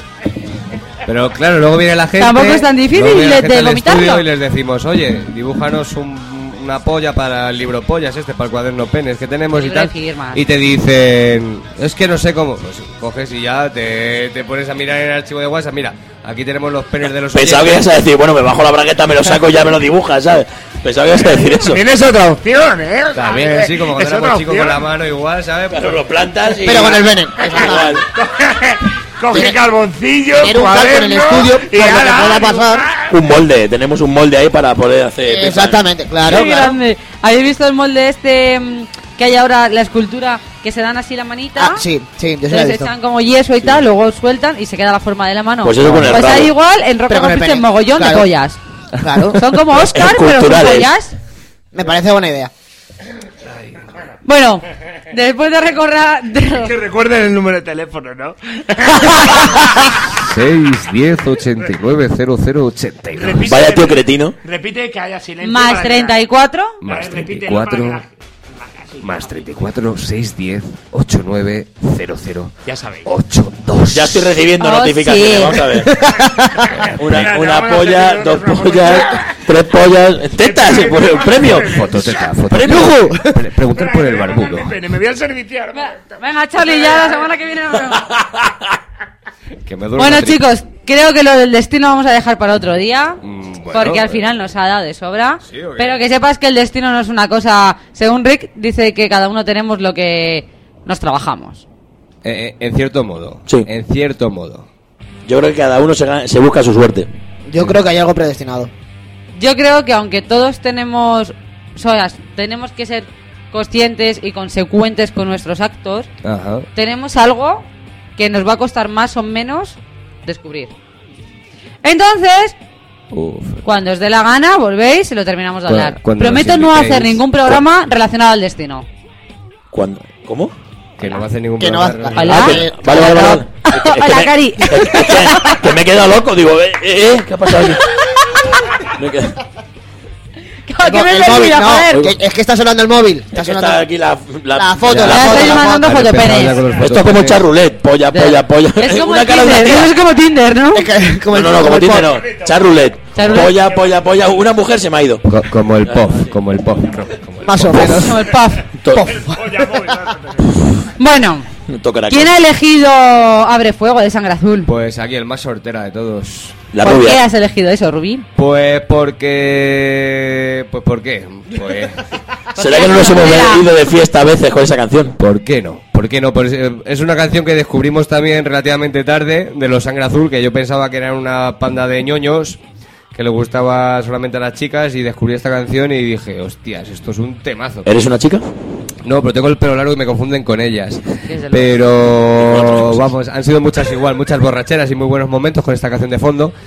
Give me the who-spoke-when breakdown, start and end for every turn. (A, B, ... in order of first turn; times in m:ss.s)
0:01.0-0:17.9 A
0:02.2-0:04.2 B
0:09.5-0:10.4 B
0:17.3-0:21.8 C
0:21.4-0:24.8 D
0:23.1-0:26.0 A
0:25.7-0:28.0 C
0:26.6-0:28.0 E
0:28.2-0:33.1 D
0:30.4-0:32.9 E
0:33.1-0:35.8 C
0:35.2-0:36.8 E
0:36.2-0:41.8 B
0:41.6-0:42.9 E
0:42.5-0:48.6 B
0:45.6-0:46.5 C
0:47.1-0:48.3 E
0:49.0-0:49.4 E
0:49.3-0:51.1 B
0:49.8-0:50.9 C
0:51.7-0:52.5 E
0:54.2-0:56.8 B
0:56.6-1:00.1 D
1:00.1-1:03.5 A
1:03.2-1:06.2 D
1:03.5-1:04.4 C
1:05.4-1:06.8 B
1:06.8-1:08.0 A
1:06.9-1:09.3 D
1:09.0-1:12.5 A
1:12.6-1:13.1 D
1:13.0-1:14.3 A
1:13.9-1:16.1 C
1:14.6-1:15.7 B
1:15.8-1:16.7 E
1:17.0-1:19.2 D
1:17.0-1:21.9 C
1:20.4-1:22.1 D
1:21.5-1:24.8 A
1:22.5-1:23.2 C
1:23.7-1:26.0 D
1:25.8-1:28.1 B
1:29.7-1:30.4 A
1:30.0-1:33.2 B
1:33.2-1:34.2 A
1:33.7-1:41.6 B
1:35.5-1:36.0 A
1:42.2-1:44.7 A
1:45.3-1:47.1 C
1:47.5-1:48.7 E
1:49.4-1:56.1 B
1:56.2-1:56.7 A
1:56.8-2:00.7 B
2:01.8-2:02.6 B
2:03.1-2:03.6 A
2:03.6-2:08.9 B
2:05.7-2:07.5 A
2:09.7-2:10.5 C
2:11.0-2:12.5 A
2:11.6-2:13.4 E
2:12.2-2:15.6 B
2:12.2-2:17.8 C
2:17.6-2:18.6 B
2:18.8-2:19.4 C
2:20.7-2:22.1 B
2:20.8-2:23.8 E
2:23.3-2:25.6 C
2:24.6-2:26.1 E
2:25.0-2:26.6 B
2:25.6-2:27.4 A
2:26.8-2:30.0 C
2:28.1-2:30.9 B
2:30.7-2:32.2 E
2:31.3-2:35.2 C
2:32.3-2:32.6 D
2:33.2-2:33.5 B
2:35.3-2:37.9 A
2:35.8-2:36.2 C
2:37.4-2:38.3 E
2:37.7-2:38.0 C
2:37.7-2:38.7 B
2:38.8-2:39.2 C
2:38.9-2:39.8 E
2:39.1-2:40.7 D
2:41.0-2:41.5 B
2:41.7-2:42.3 C
2:42.1-2:44.7 B
2:44.7-2:46.6 A
2:46.7-2:47.2 C
2:46.8-2:48.3 B
2:48.4-2:52.0 A
2:52.6-2:53.7 B
2:52.6-2:55.2 C
2:55.2-3:02.6 A
3:03.1-3:07.9 A
3:07.8-3:08.5 C
3:09.0-3:16.5 A
3:11.3-3:11.8 B
3:12.4-3:13.1 C